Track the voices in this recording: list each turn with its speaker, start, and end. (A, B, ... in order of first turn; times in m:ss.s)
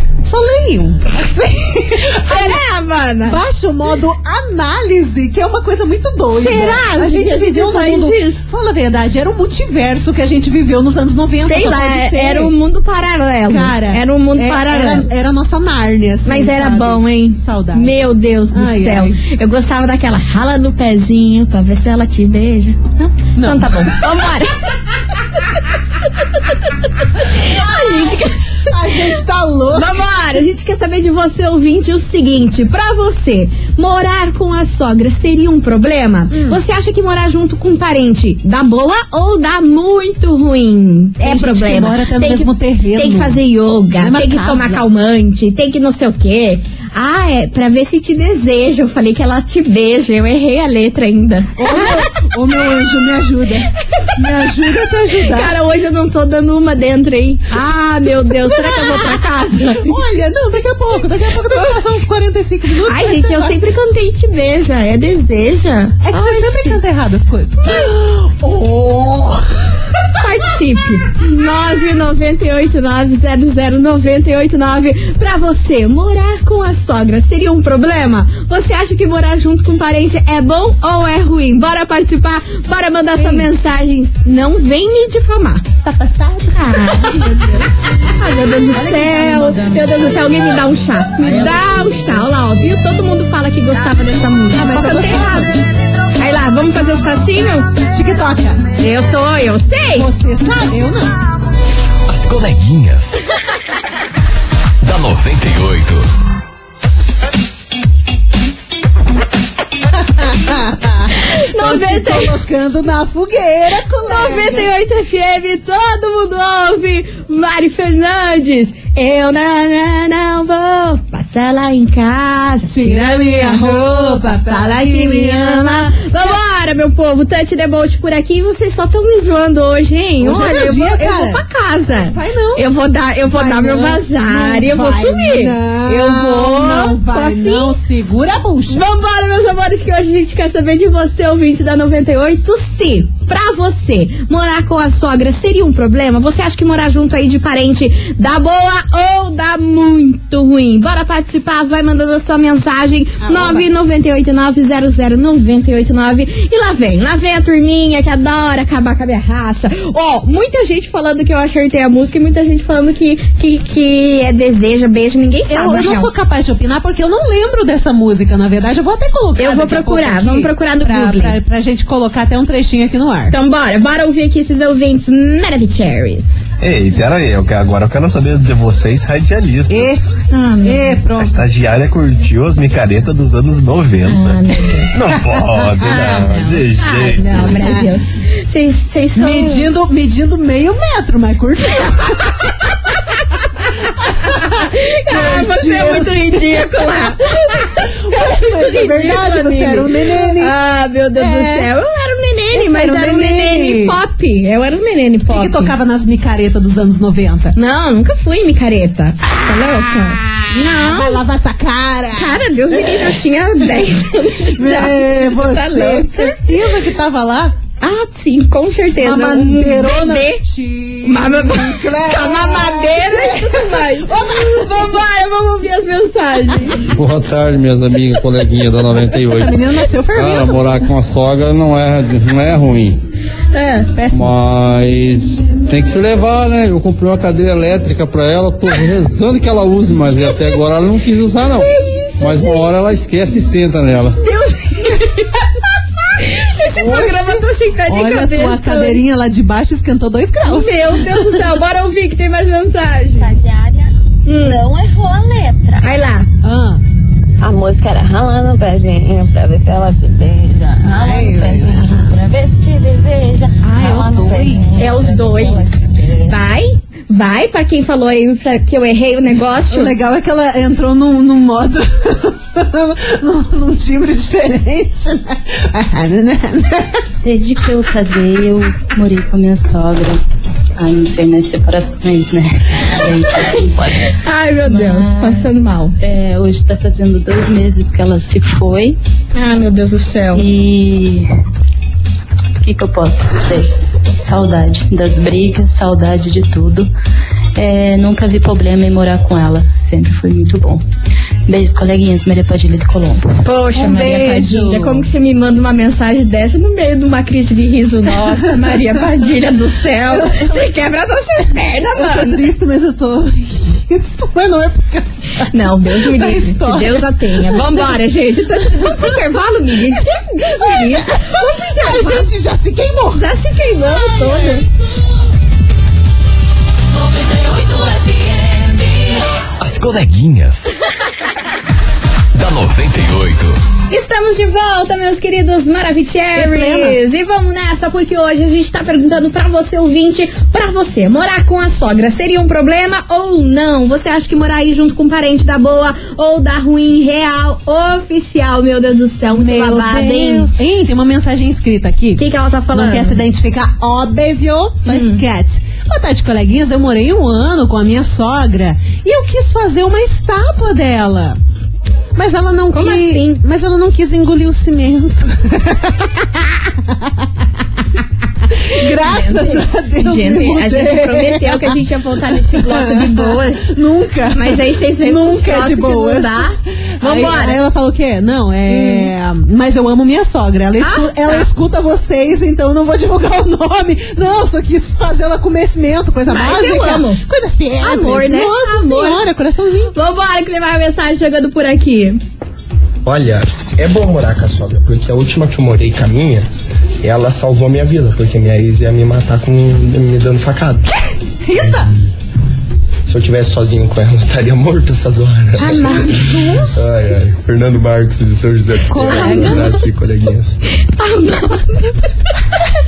0:00.2-0:02.6 A
0:02.0-0:03.4 B
0:03.2-0:12.5 A
0:06.3-0:08.5 B
0:11.4-0:15.1 B
0:13.5-0:19.2 A
0:16.2-0:24.6 B
0:23.3-0:24.1 A
0:27.2-0:30.0 A
0:27.2-0:28.4 B
0:29.7-0:52.3 B
0:36.3-0:36.6 A
0:41.2-0:43.4 A
0:44.0-0:44.8 A
0:51.6-0:55.6 A
0:55.1-1:00.0 B
0:58.2-1:03.6 A
1:01.5-1:01.8 B
1:02.9-1:06.8 B
1:06.0-1:09.6 A
1:10.1-1:25.6 B
1:23.1-1:23.5 A
1:25.8-1:27.8 A
1:26.5-1:27.6 B
1:28.2-1:35.6 B
1:28.7-1:32.2 A
1:34.5-1:35.5 A
1:36.2-1:37.7 B
1:37.9-1:38.8 A
1:38.8-1:40.1 B
1:39.9-1:41.1 A
1:42.1-1:43.2 C
1:44.8-1:46.1 C
1:49.9-1:54.7 A
1:51.1-1:52.4 B
1:54.0-2:17.8 B
2:02.7-2:06.4 A
2:10.2-2:11.4 A
2:11.9-2:12.7 A
2:13.2-2:18.8 A
2:18.7-2:46.1 B
2:33.2-2:33.7 A
2:45.5-2:53.3 A
2:49.4-2:51.4 B
2:53.3-2:56.3 B
2:56.6-3:00.1 D
2:59.7-3:00.0 A
3:00.3-3:01.1 B
3:00.6-3:01.4 A
3:01.1-3:07.8 D
3:04.0-3:05.0 B
3:05.0-3:08.0 A
3:06.8-3:09.7 B
3:09.1-3:12.5 A
3:13.8-3:20.5 A
3:14.0-3:25.7 B
3:21.2-3:21.7 A
3:22.5-3:24.0 A
3:25.3-3:27.6 A
3:27.6-3:31.2 B
3:30.7-3:33.8 A
3:32.2-3:36.4 B
3:34.4-3:37.6 A
3:37.8-3:40.4 B
3:39.0-3:45.0 A
3:41.0-3:46.9 B
3:46.9-3:49.6 E
3:49.2-3:50.8 A
3:50.1-3:53.0 E
3:53.5-3:53.9 B
3:53.9-3:54.3 A
3:54.1-4:04.2 E
4:01.6-4:02.7 B
4:04.2-4:05.5 B
4:06.2-4:09.0 B
4:06.7-4:11.5 A
4:10.4-4:13.3 B
4:13.2-4:16.0 F
4:14.2-4:14.6 B
4:15.8-4:16.3 B
4:16.4-4:16.8 A
4:17.4-4:26.4 F
4:20.8-4:22.0 A
4:23.6-4:25.0 A
4:24.8-4:29.9 B
4:29.7-4:37.0 A
4:37.2-4:40.2 G
4:40.8-4:49.0 G
4:44.1-4:46.0 B
4:49.3-4:50.4 B
4:50.3-4:51.3 G
4:52.6-4:56.9 G
4:57.6-5:00.8 G
5:01.5-5:03.2 G
5:03.4-5:12.4 B
5:03.7-5:05.1 A
5:10.1-5:10.7 A
5:12.0-5:17.9 A
5:15.4-5:22.3 B
5:18.6-5:19.2 A
5:19.8-5:24.7 A
5:23.1-5:24.6 B
5:29.6-5:30.7 C
5:32.3-5:33.6 C
5:33.9-5:50.5 B
5:36.3-5:37.0 A
5:49.3-6:01.4 A
5:52.2-5:53.2 B
5:54.8-5:55.2 B
6:02.1-6:29.9 A
6:02.7-6:03.4 B
6:08.7-6:13.8 B
6:14.3-6:17.6 B
6:18.7-6:19.1 B
6:20.8-6:21.5 B
6:26.3-6:27.2 B
6:27.8-6:29.2 B
6:29.9-6:32.2 B
6:33.0-6:36.4 H
6:37.0-6:40.9 H
6:41.4-6:41.9 A
6:43.1-6:50.6 H
6:45.6-6:46.6 B
6:45.6-6:46.9 A
6:48.9-6:49.7 A
6:49.0-6:49.8 B
6:50.8-6:52.7 B